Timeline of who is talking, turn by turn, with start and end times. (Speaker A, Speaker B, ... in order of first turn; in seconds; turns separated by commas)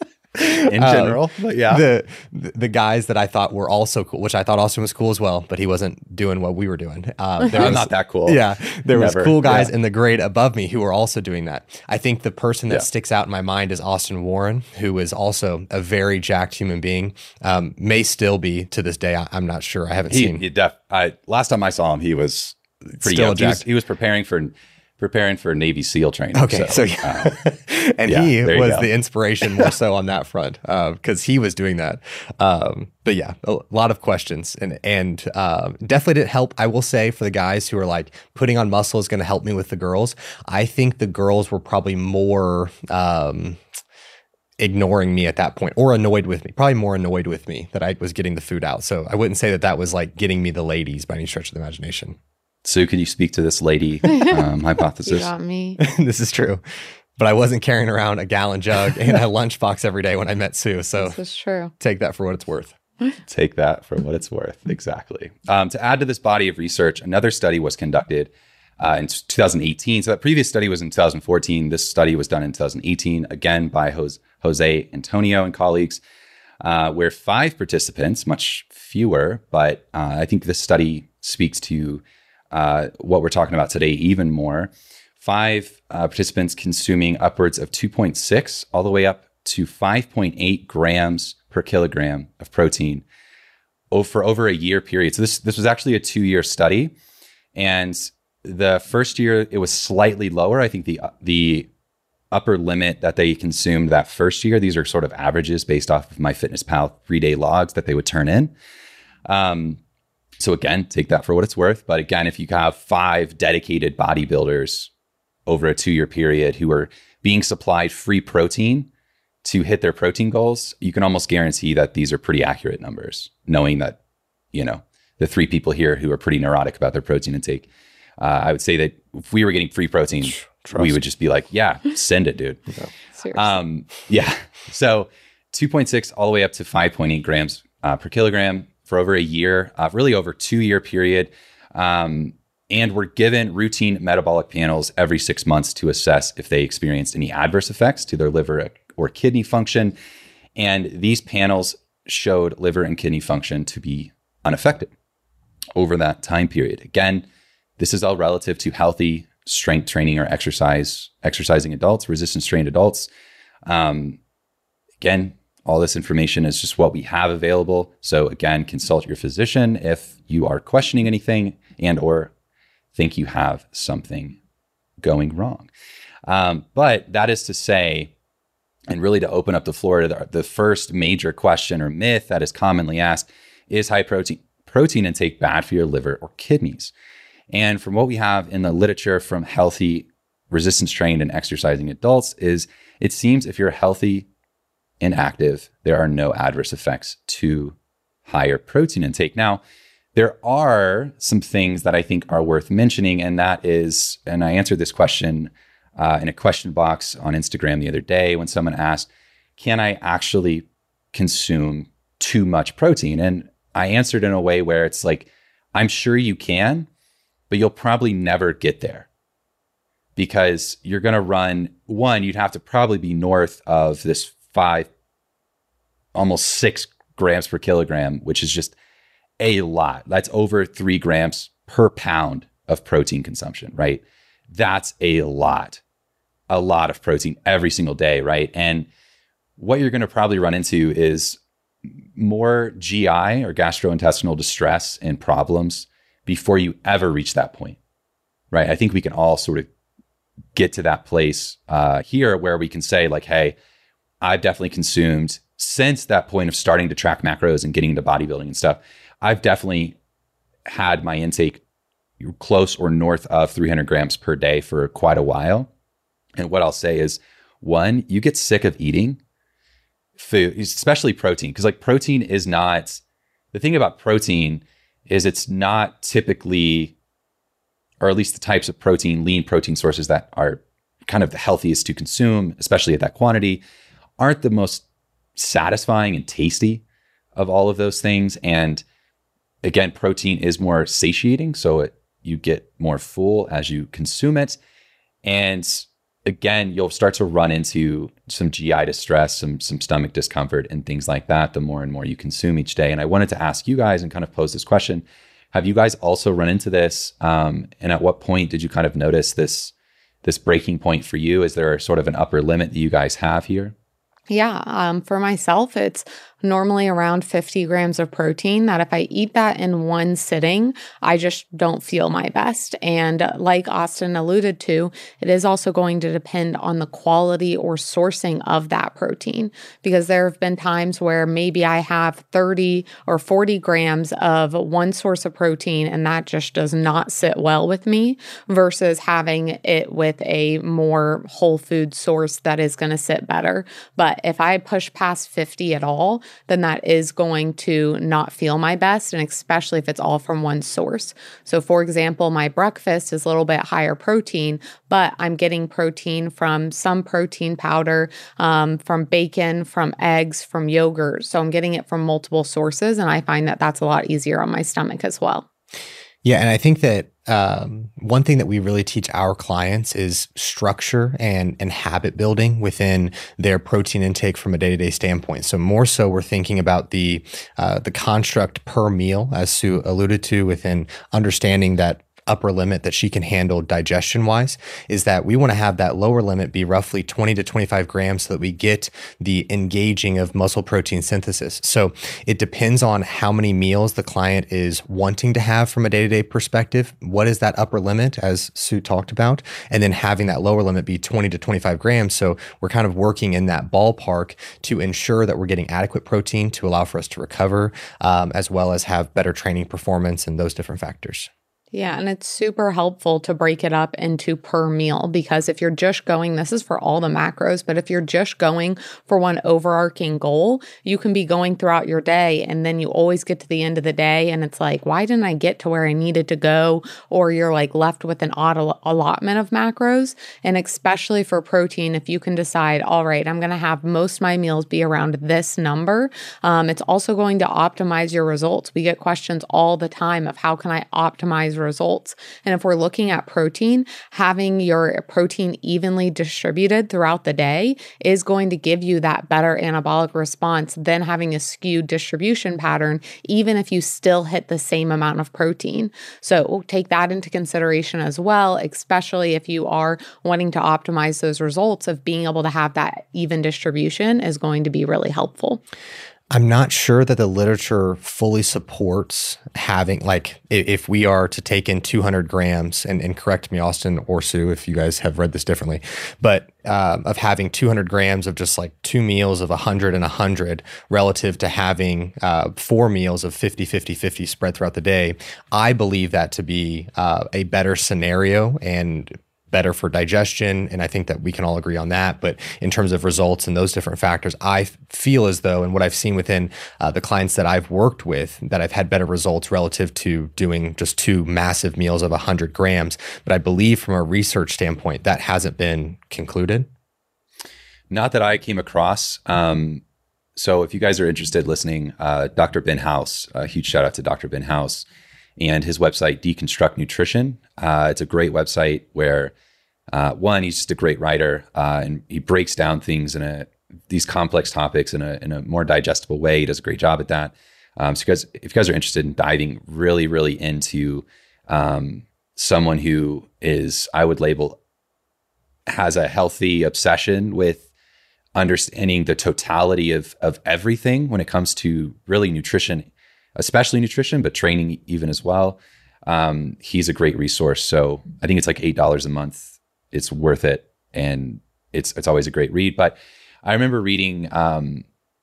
Speaker A: 0.4-1.8, Speaker B: 0.7-20.4, Speaker A: 7.5-9.7, Speaker A: 20.1-27.4, Speaker B: 23.0-23.6, Speaker B: 26.4-43.6, Speaker A: 28.1-28.9, Speaker B: 44.6-52.2, Speaker A: 52.6-55.3, Speaker C: 55.0-55.8, Speaker B: 55.8-56.6, Speaker B: 57.2-61.2, Speaker C: 61.0-61.7, Speaker B: 61.8-62.8, Speaker A: 63.3-76.0, Speaker A: 76.6-93.0, Speaker A: 93.9-96.9, Speaker A: 97.5-101.7, Speaker A: 102.3-108.5, Speaker A: 109.3-109.8, Speaker A: 110.4-114.9, Speaker A: 115.5-118.9, Speaker A: 119.4-124.0, Speaker A: 124.5-127.7, Speaker A: 128.2-132.6, Speaker B: 130.4-131.0, Speaker C: 133.2-133.5, Speaker A: 133.3-149.9, Speaker A: 150.6-154.9, Speaker A: 155.8-157.2, Speaker A: 157.8-163.1, Speaker A: 163.7-164.2, Speaker A: 165.0-172.3, Speaker A: 172.9-174.4, Speaker A: 175.0-175.7, Speaker A: 176.3-178.1, Speaker A: 178.9-186.9, Speaker A: 187.5-194.3, Speaker A: 195.0-199.6, Speaker A: 200.2-216.9, Speaker A: 217.5-219.1, Speaker A: 220.2-224.9, Speaker A: 226.2-228.8, Speaker A: 229.4-235.8, Speaker A: 236.5-238.9, Speaker A: 239.6-241.4, Speaker A: 242.2-247.8, Speaker A: 248.5-249.7, Speaker A: 250.6-253.6, Speaker A: 254.2-260.0, Speaker A: 260.7-261.6, Speaker A: 262.2-265.7, Speaker A: 266.4-269.2, Speaker A: 270.2-273.0, Speaker A: 273.5-276.9, Speaker A: 278.0-283.6, Speaker A: 284.2-284.8, Speaker A: 285.4-286.8, Speaker A: 287.4-288.8, Speaker A: 289.6-294.6, Speaker A: 295.2-309.7, Speaker A: 310.2-313.7, Speaker C: 314.3-365.5, Speaker B: 366.2-411.3, Speaker C: 411.7-465.6, Speaker B: 466.3-506.7, Speaker A: 507.9-509.8, Speaker A: 510.4-514.9, Speaker A: 515.4-519.3, Speaker A: 519.9-534.6, Speaker A: 535.7-537.7, Speaker A: 538.4-554.8